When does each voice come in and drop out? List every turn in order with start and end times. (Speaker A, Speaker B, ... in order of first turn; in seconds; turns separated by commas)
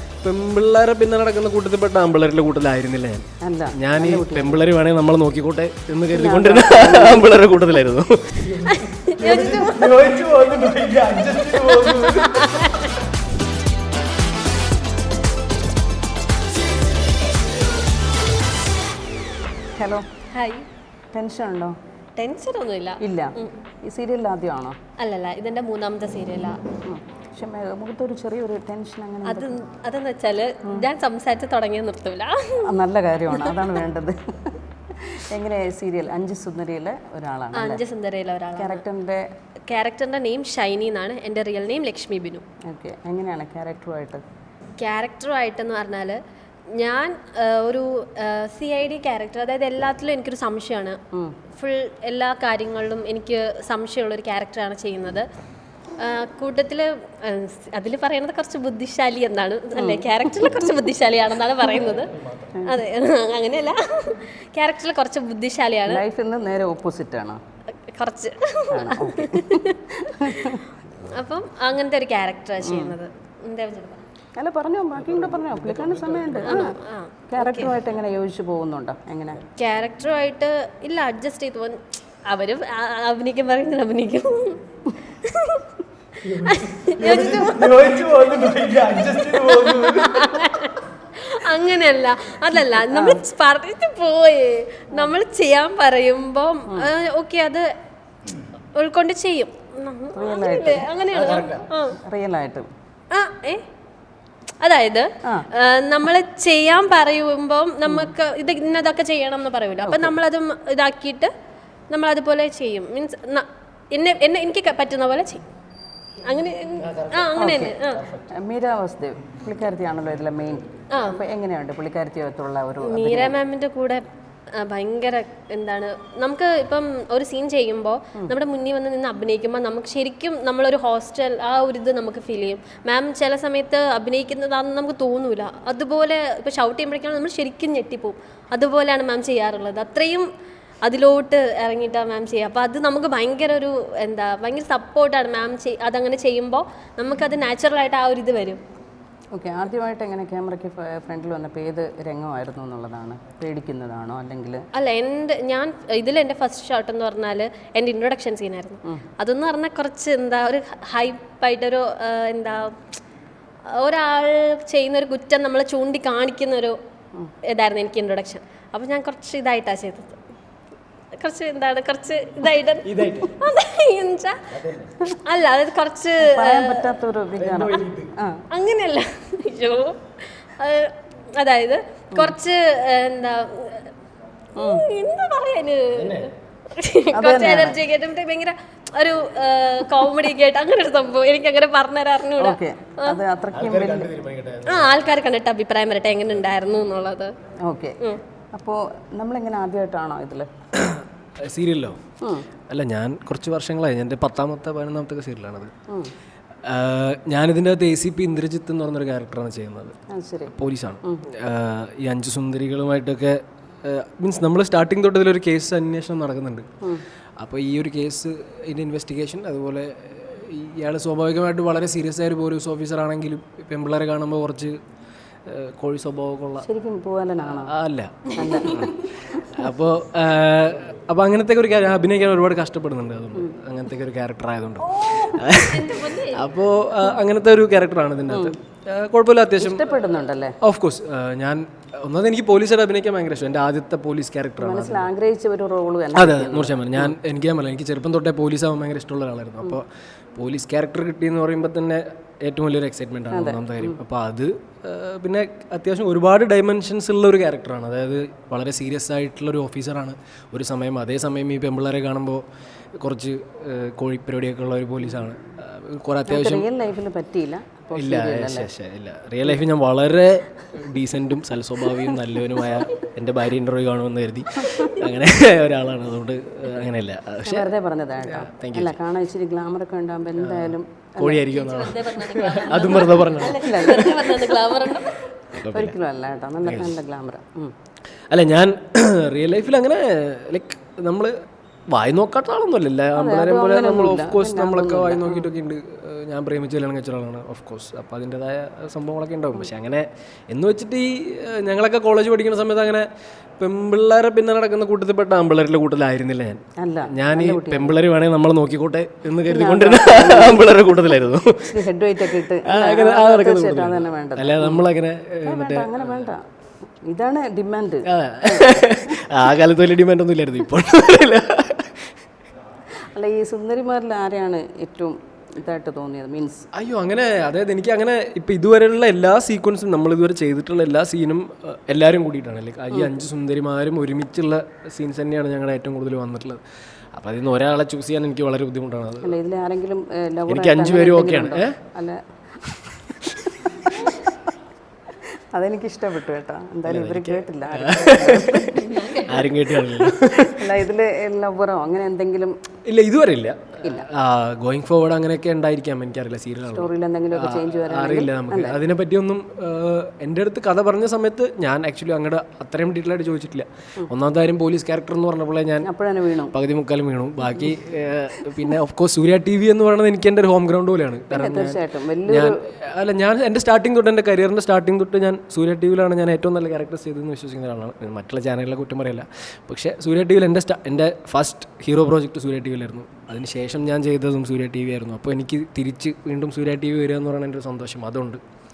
Speaker A: 0.2-12.6, Speaker B: 3.4-4.7, Speaker B: 6.1-7.4, Speaker C: 8.6-10.6, Speaker C: 11.3-12.9, Speaker B: 19.8-20.1, Speaker C: 20.3-20.7, Speaker B: 21.1-21.8, Speaker C: 22.2-23.5, Speaker B: 23.0-24.8, Speaker C: 25.0-26.6, Speaker B: 26.9-29.6, Speaker C: 29.2-32.7, Speaker B: 32.6-37.8, Speaker C: 33.3-33.8, Speaker C: 37.5-38.8, Speaker B: 38.6-39.3, Speaker C: 39.7-42.4, Speaker B: 42.7-44.2, Speaker C: 44.8-46.2, Speaker C: 46.8-51.0, Speaker C: 51.6-55.3, Speaker C: 56.0-66.0, Speaker B: 59.8-60.1, Speaker B: 62.5-62.8, Speaker B: 65.9-67.4, Speaker C: 67.8-74.0, Speaker B: 68.7-70.7, Speaker B: 72.6-73.0, Speaker B: 74.4-76.8, Speaker A: 75.9-76.6, Speaker C: 76.4-77.7, Speaker B: 77.3-79.4, Speaker C: 79.6-85.7, Speaker C: 86.2-97.7, Speaker A: 87.0-90.1, Speaker B: 92.7-93.2, Speaker C: 98.8-102.0, Speaker B: 100.2-100.9, Speaker B: 102.0-102.7, Speaker C: 103.1-103.7, Speaker C: 104.6-111.3, Speaker B: 107.9-108.1, Speaker B: 109.8-110.2, Speaker C: 111.9-115.5, Speaker C: 116.2-118.2, Speaker B: 117.3-123.4, Speaker C: 120.9-121.2, Speaker C: 122.8-124.0, Speaker C: 124.5-140.3, Speaker C: 140.8-148.6, Speaker B: 149.3-154.7, Speaker C: 154.7-163.0, Speaker C: 163.7-166.8, Speaker C: 167.5-170.2, Speaker C: 171.2-176.9, Speaker A: 172.9-173.3, Speaker A: 174.6-174.9, Speaker B: 176.2-178.4, Speaker A: 177.4-178.1, Speaker C: 178.5-183.9, Speaker B: 184.6-184.8, Speaker C: 184.6-193.2, Speaker A: 185.9-186.3, Speaker B: 187.1-187.8, Speaker B: 192.4-194.1, Speaker A: 193.5-194.9, Speaker C: 194.7-197.3, Speaker B: 197.7-198.0, Speaker B: 198.5-200.5, Speaker A: 200.8-202.0, Speaker A: 202.7-205.7, Speaker A: 206.6-210.0, Speaker B: 210.1-210.5, Speaker A: 210.5-216.7, Speaker A: 217.4-224.8, Speaker A: 225.5-226.7, Speaker B: 226.6-227.7, Speaker A: 227.5-239.9, Speaker B: 228.3-229.7, Speaker C: 234.9-236.5, Speaker B: 239.6-240.6, Speaker A: 240.6-245.1, Speaker B: 244.6-247.1, Speaker A: 246.2-262.4, Speaker B: 253.3-254.0, Speaker A: 263.0-266.7, Speaker B: 266.3-268.7, Speaker A: 267.9-277.7, Speaker B: 277.4-281.5, Speaker A: 278.3-279.0, Speaker A: 280.4-284.2, Speaker C: 281.5-285.4, Speaker B: 283.4-285.0, Speaker A: 285.5-285.9, Speaker B: 285.6-287.7, Speaker A: 286.6-287.0, Speaker A: 288.3-291.3, Speaker A: 291.9-303.1, Speaker B: 293.1-295.5, Speaker A: 303.6-316.3, Speaker B: 306.8-308.0, Speaker B: 309.5-310.7, Speaker B: 311.7-314.8, Speaker B: 315.4-316.4, Speaker B: 317.1-319.2, Speaker A: 318.1-322.1, Speaker B: 323.1-326.7, Speaker A: 326.7-336.6, Speaker A: 337.1-339.3, Speaker B: 339.2-344.1, Speaker A: 340.5-341.8, Speaker A: 343.4-344.1, Speaker B: 345.5-352.6, Speaker A: 346.9-350.7, Speaker C: 348.8-349.3, Speaker A: 352.9-365.9, Speaker B: 356.7-358.8, Speaker B: 365.8-366.5, Speaker A: 366.5-388.4, Speaker B: 371.3-372.6